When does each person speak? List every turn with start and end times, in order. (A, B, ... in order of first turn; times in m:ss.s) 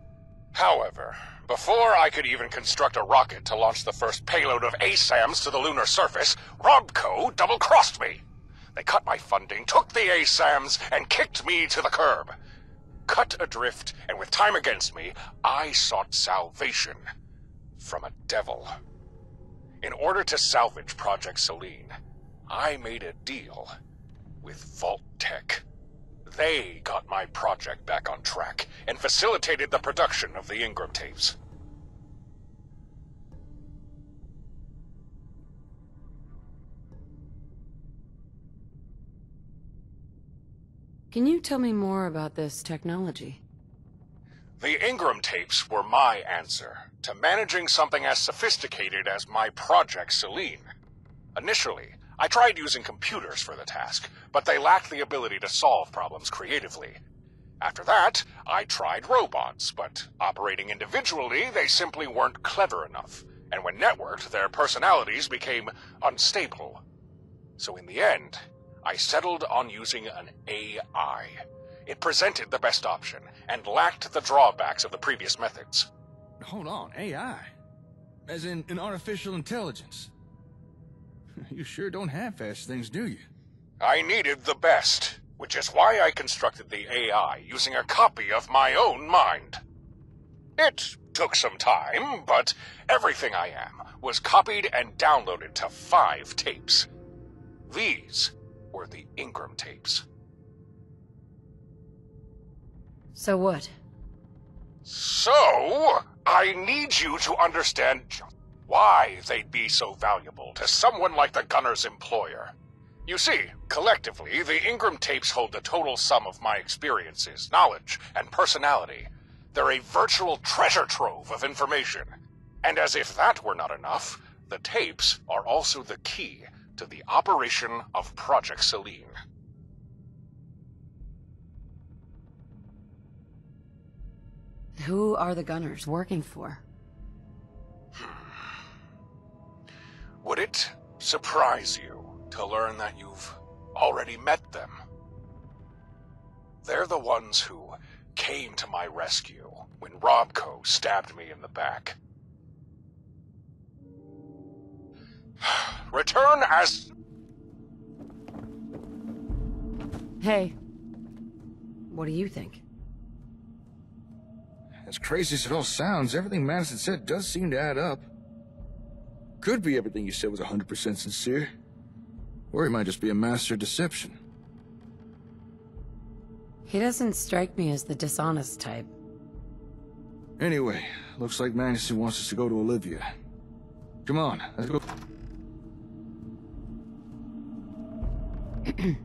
0:00.5-0:08.2 A
0:08.7-0:12.3 A
0:13.1-0:17.0 A
0:17.8-0:18.7 A
0:19.8-0:21.9 A
0:22.5-0:23.7 A
0:24.4-0:25.6 A
0:26.2-0:31.3 A
0:41.1-0:43.4 B
0:44.6-0:50.6 A
0:51.3-0:57.0 A
0:57.6-1:06.8 A
1:07.6-1:15.9 A
1:16.4-1:17.5 C
1:18.3-1:20.1 C
1:21.4-1:23.2 C
1:23.8-1:29.6 A
1:30.6-1:36.9 A
1:37.7-1:40.0 A
1:43.1-1:43.7 B
1:44.8-1:52.5 A
1:53.0-2:02.1 A
2:02.6-2:09.1 A
2:14.8-2:16.6 B
2:17.9-2:18.3 A
2:20.2-2:24.8 A
2:26.6-2:32.0 A
2:35.4-2:36.9 A
2:40.2-2:40.5 B
2:41.9-2:42.6 B
2:44.8-2:48.1 C
2:49.4-2:51.5 C
2:52.5-2:54.2 C
2:56.7-2:58.9 B
3:00.4-3:03.1 C
3:04.0-3:04.8 C